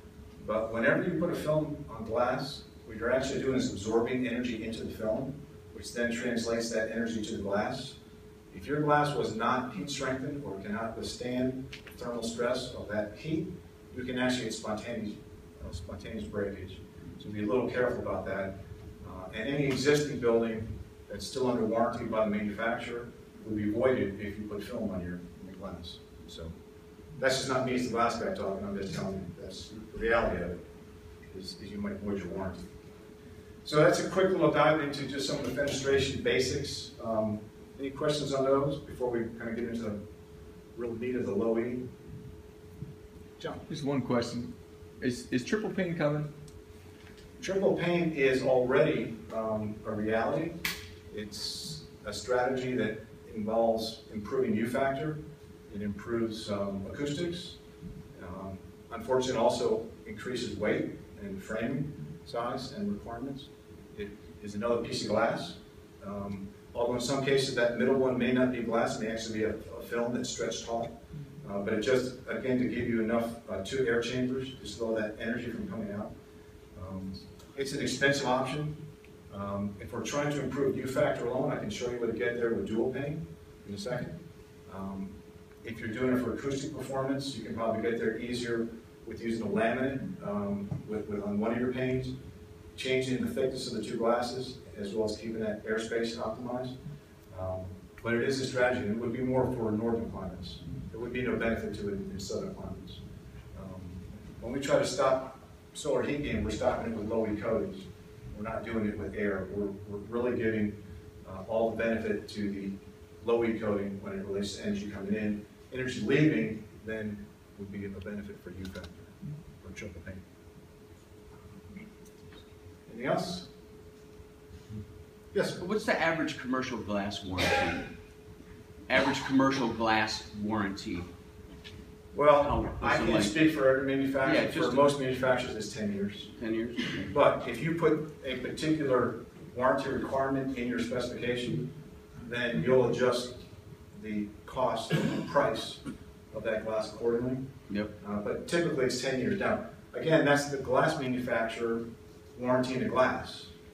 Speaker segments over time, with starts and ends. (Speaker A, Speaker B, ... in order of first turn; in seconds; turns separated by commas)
Speaker A: 0.4-8.0, Speaker A: 8.5-26.5, Speaker A: 27.2-30.6, Speaker A: 31.3-32.6, Speaker A: 33.6-40.0, Speaker A: 40.7-41.9, Speaker A: 43.4-43.6, Speaker B: 43.7-46.3, Speaker A: 47.4-57.6, Speaker A: 58.1-76.1, Speaker A: 76.7-78.8, Speaker A: 79.3-85.1, Speaker A: 85.6-92.1, Speaker A: 92.7-96.8, Speaker A: 97.3-103.0, Speaker A: 103.5-119.1, Speaker A: 119.6-120.2, Speaker A: 122.9-123.5, Speaker C: 125.5-127.9, Speaker C: 128.9-131.1, Speaker A: 132.1-136.3, Speaker C: 132.4-133.3, Speaker C: 134.2-134.9, Speaker C: 136.4-137.1, Speaker A: 137.1-141.7, Speaker A: 142.2-143.4, Speaker A: 143.9-145.8, Speaker A: 146.3-147.4, Speaker A: 148.0-153.5